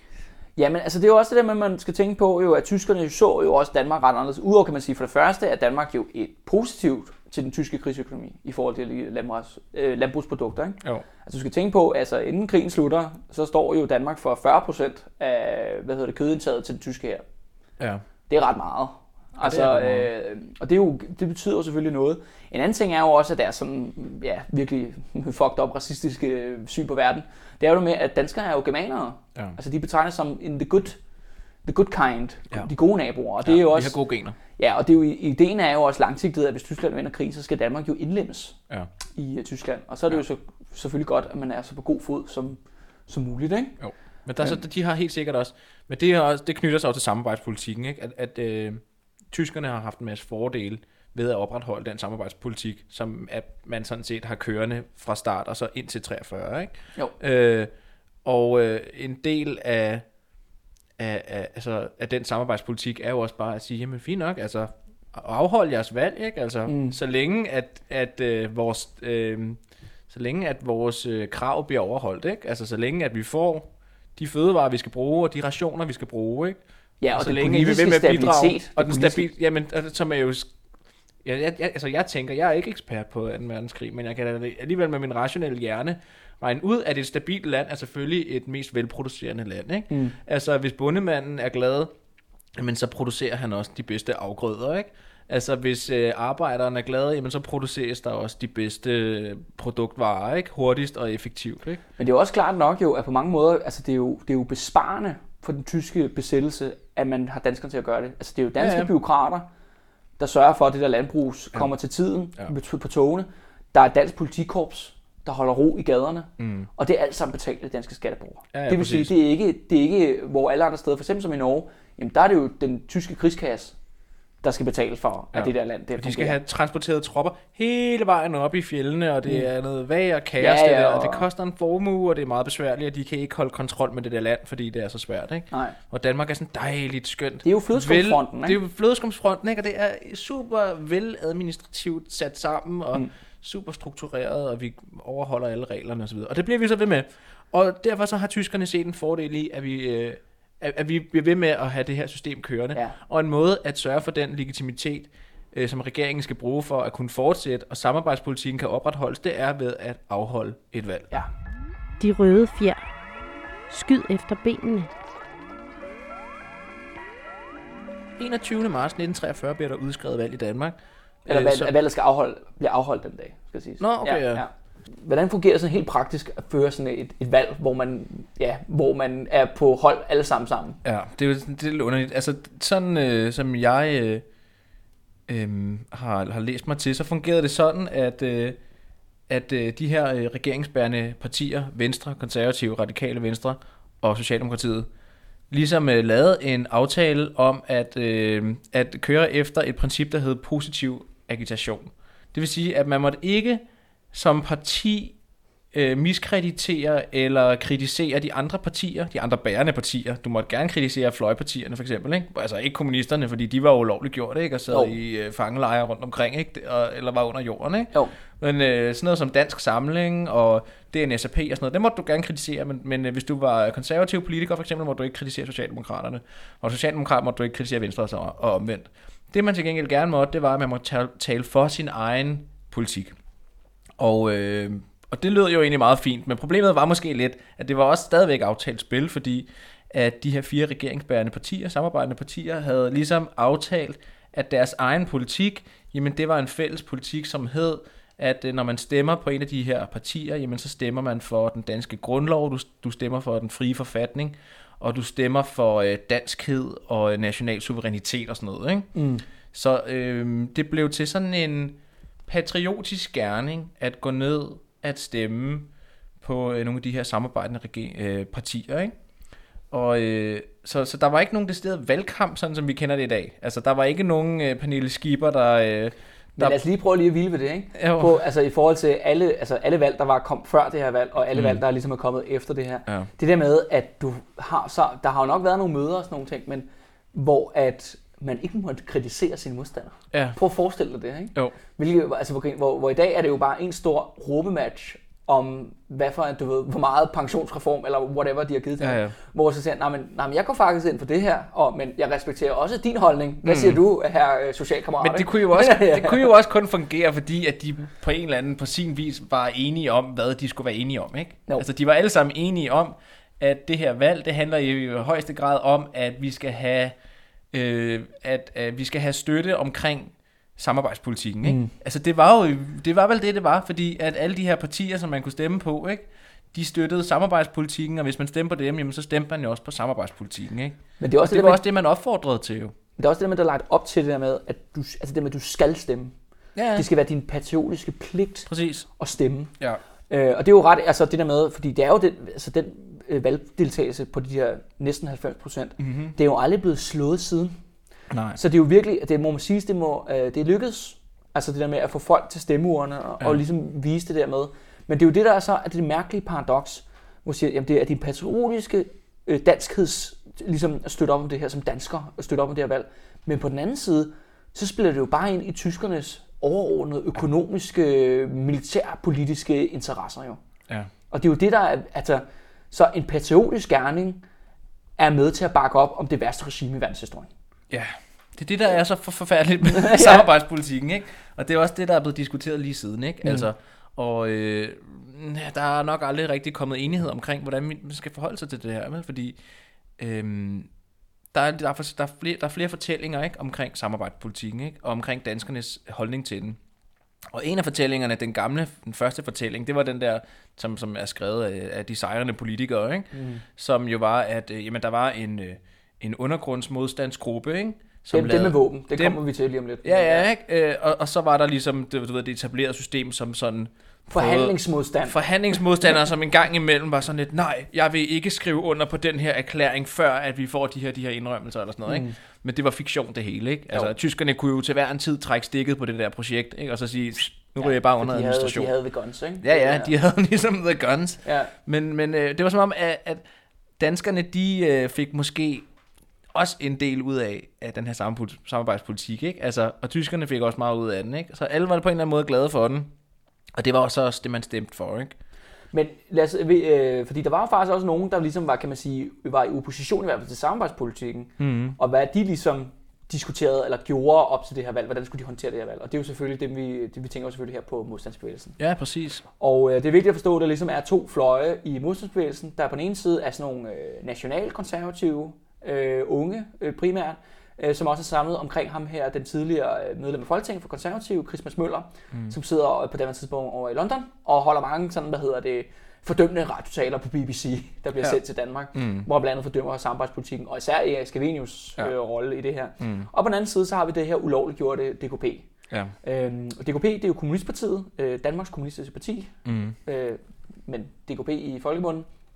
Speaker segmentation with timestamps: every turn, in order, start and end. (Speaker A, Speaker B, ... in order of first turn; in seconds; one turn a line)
Speaker A: 0.6-17.2
Speaker B: 17.8-18.0
Speaker A: 18.3-31.0
Speaker B: 19.4-20.1
Speaker A: 31.6-38.6
Speaker B: 33.4-34.4
Speaker A: 39.1-43.8
Speaker B: 43.8-57.7
Speaker B: 58.2-60.0
Speaker B: 61.0-76.6
Speaker A: 66.7-67.0
Speaker A: 77.0-79.3
Speaker B: 77.1-80.5
Speaker B: 81.2-91.9
Speaker A: 89.9-90.2
Speaker B: 92.6-101.8
Speaker A: 102.0-109.5
Speaker B: 108.6-108.9
Speaker A: 110.2-123.7
Speaker B: 116.4-116.7
Speaker B: 118.5-119.1
Speaker A: 124.4-126.4
Speaker B: 125.3-161.1
Speaker A: 130.4-131.3
Speaker A: 135.5-135.8
Speaker A: 137.4-138.6
Speaker C: 162.0-162.8
Speaker C: 163.7-164.9
Speaker B: 168.2-171.7
Speaker A: 171.2-180.8
Speaker B: 173.8-174.4
Speaker B: 180.8-184.2
Speaker B: 185.3-188.6
Speaker B: 189.3-194.9
Speaker B: 195.5-205.2
Speaker B: 205.7-233.2
Speaker A: 214.7-214.9
Speaker B: 234.0-258.9
Speaker A: 258.9-259.2
Speaker B: 259.5-265.7
Speaker B: 266.2-268.9
Speaker B: 269.7-276.6
Speaker A: 276.4-306.3
Speaker B: 277.7-278.2
Speaker B: 281.3-281.6
Speaker B: 290.1-290.4
Speaker B: 298.8-299.1
Speaker B: 303.4-303.8
Speaker B: 305.0-316.9
Speaker B: 317.5-332.7
Speaker A: 321.4-321.7
Speaker A: 331.0-331.6
Speaker A: 333.0-336.1
Speaker B: 336.5-336.9
Speaker A: 336.7-339.5
Speaker B: 338.5-338.9
Speaker A: 340.1-347.6
Speaker B: 345.8-346.1
Speaker B: 348.1-348.4
Speaker A: 348.3-370.4
Speaker A: 371.1-374.2
Speaker A: 375.0-377.3
Speaker B: 377.7-389.4
Speaker A: 379.7-380.3
Speaker B: 390.0-390.7
Speaker B: 391.3-396.6
Speaker B: 397.3-409.2
Speaker A: 403.1-403.4
Speaker A: 408.1-410.3
Speaker B: 409.8-428.7
Speaker A: 414.1-415.9
Speaker A: 421.9-422.1
Speaker A: 427.6-429.9
Speaker B: 429.4-433.2
Speaker A: 431.2-431.5
Speaker B: 433.8-435.6
Speaker B: 436.3-442.9
Speaker B: 443.5-445.1
Speaker A: 445.7-458.6
Speaker B: 451.4-451.8
Speaker B: 458.6-459.2
Speaker A: 459.4-485.5
Speaker B: 478.7-479.1
Speaker B: 482.8-483.1
Speaker B: 485.7-485.9
Speaker A: 486.0-489.3
Speaker B: 489.4-489.8
Speaker A: 489.8-492.1